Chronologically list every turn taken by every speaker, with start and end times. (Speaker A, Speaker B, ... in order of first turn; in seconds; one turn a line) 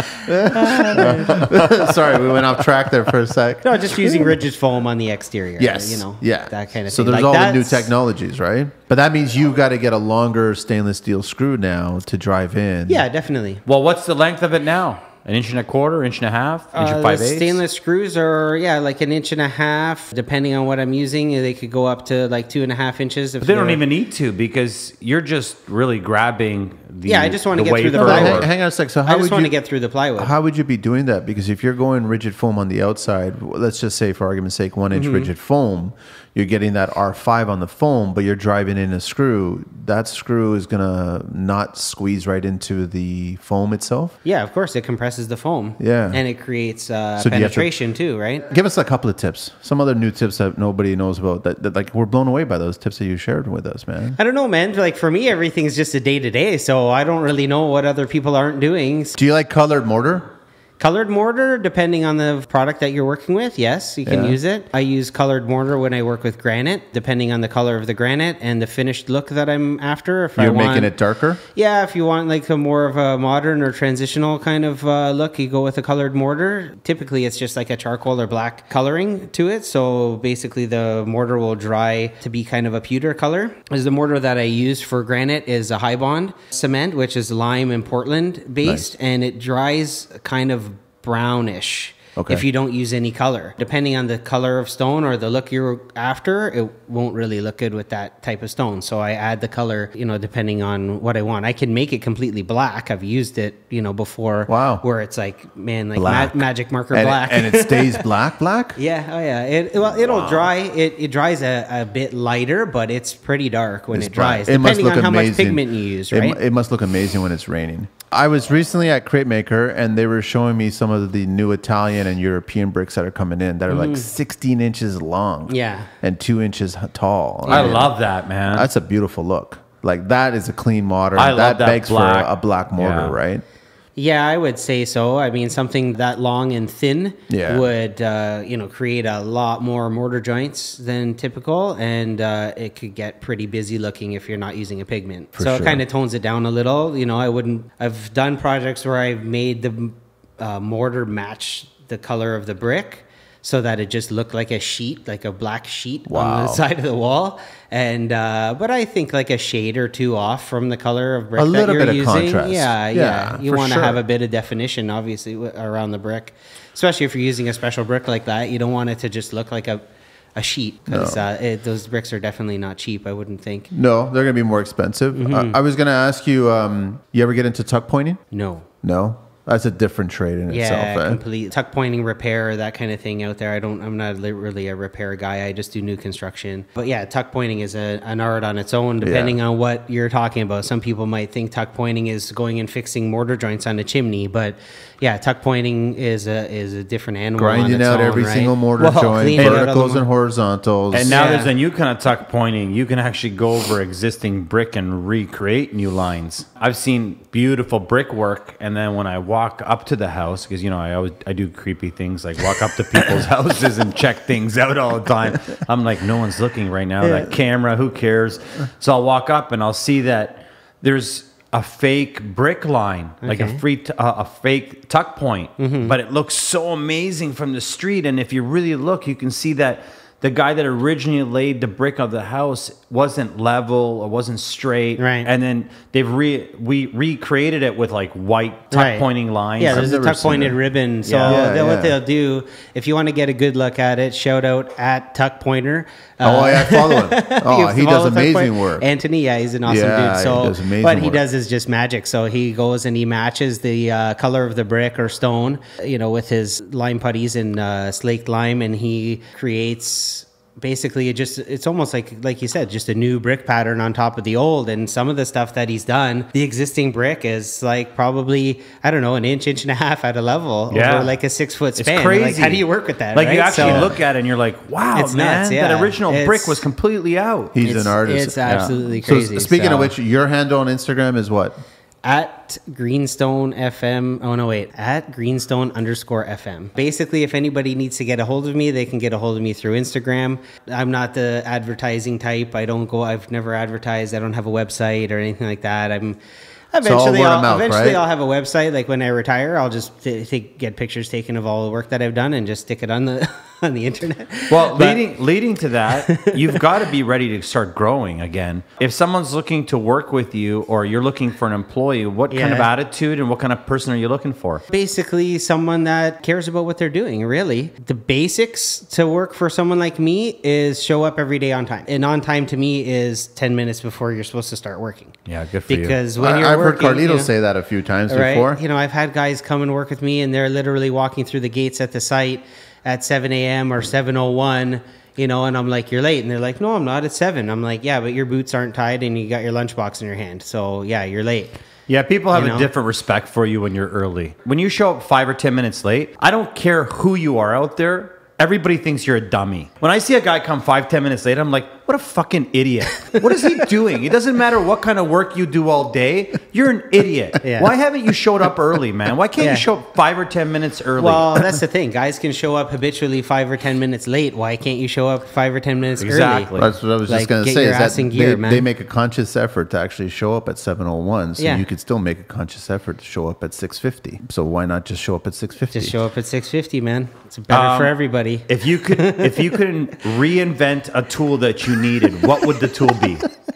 Speaker A: 0.3-4.4
Speaker B: 0.5-1.5
Speaker C: 0.8-1.9
Speaker B: 3.6-7.9
Speaker A: 5.6-13.1
Speaker B: 12.9-13.6
Speaker C: 13.7-17.6
Speaker B: 16.7-23.8
Speaker C: 23.4-28.5
Speaker B: 27.1-28.5
Speaker A: 27.9-29.5
Speaker B: 29.1-30.3
Speaker A: 30.2-44.2
Speaker B: 34.9-35.3
Speaker B: 44.2-48.5
Speaker A: 45.8-46.2
Speaker A: 47.2-47.7
Speaker A: 48.5-54.2
Speaker B: 54.2-59.2
Speaker A: 59.2-60.3
Speaker B: 60.8-70.9
Speaker A: 64.1-64.4
Speaker A: 70.4-71.4
Speaker B: 71.5-108.1
Speaker A: 88.6-88.9
Speaker A: 92.2-92.4
Speaker A: 104.5-104.8
Speaker A: 106.0-108.8
Speaker B: 108.8-116.4
Speaker A: 109.8-110.5
Speaker A: 113.9-128.0
Speaker B: 123.7-124.1
Speaker B: 125.5-125.9
Speaker B: 127.5-127.8
Speaker C: 127.5-128.7
Speaker A: 128.5-133.4
Speaker C: 131.2-133.2
Speaker B: 134.0-169.8
Speaker A: 137.3-137.7
Speaker A: 145.3-145.8
Speaker A: 156.1-156.6
Speaker A: 161.4-164.0
Speaker B: 170.4-173.7
Speaker A: 170.9-171.2
Speaker A: 173.7-178.2
Speaker B: 175.1-175.6
Speaker B: 178.3-178.7
Speaker A: 178.8-181.2
Speaker B: 180.5-200.1
Speaker A: 189.0-189.4
Speaker A: 197.4-201.3
Speaker C: 200.9-239.9
Speaker B: 201.0-201.5
Speaker B: 217.0-217.3
Speaker B: 223.2-223.6
Speaker B: 225.6-225.9
Speaker B: 235.0-235.3
Speaker B: 238.7-239.1
Speaker B: 239.6-273.9
Speaker A: 239.7-240.6
Speaker C: 241.1-241.4
Speaker A: 241.2-242.0
Speaker A: 246.2-248.9
Speaker A: 249.7-251.2
Speaker C: 270.7-271.1
Speaker C: 271.8-277.6
Speaker A: 273.6-273.9
Speaker B: 274.9-276.6
Speaker A: 277.6-281.6
Speaker B: 277.6-279.9
Speaker C: 278.5-278.7
Speaker B: 282.1-296.2
Speaker B: 296.7-305.0
Speaker A: 296.8-298.0
Speaker C: 304.5-314.6
Speaker B: 306.1-306.6
Speaker B: 312.3-312.7
Speaker B: 314.7-325.1
Speaker C: 325.3-326.0
Speaker B: 325.7-327.3
Speaker A: 326.2-328.6
Speaker B: 328.1-341.6
Speaker C: 341.9-361.5
Speaker B: 342.3-342.7
Speaker B: 357.4-357.7
Speaker B: 359.4-359.7
Speaker B: 361.0-366.5
Speaker C: 366.0-366.7
Speaker A: 366.6-375.9
Speaker B: 367.1-368.7
Speaker B: 371.4-371.6
Speaker B: 375.7-379.6
Speaker C: 377.5-383.2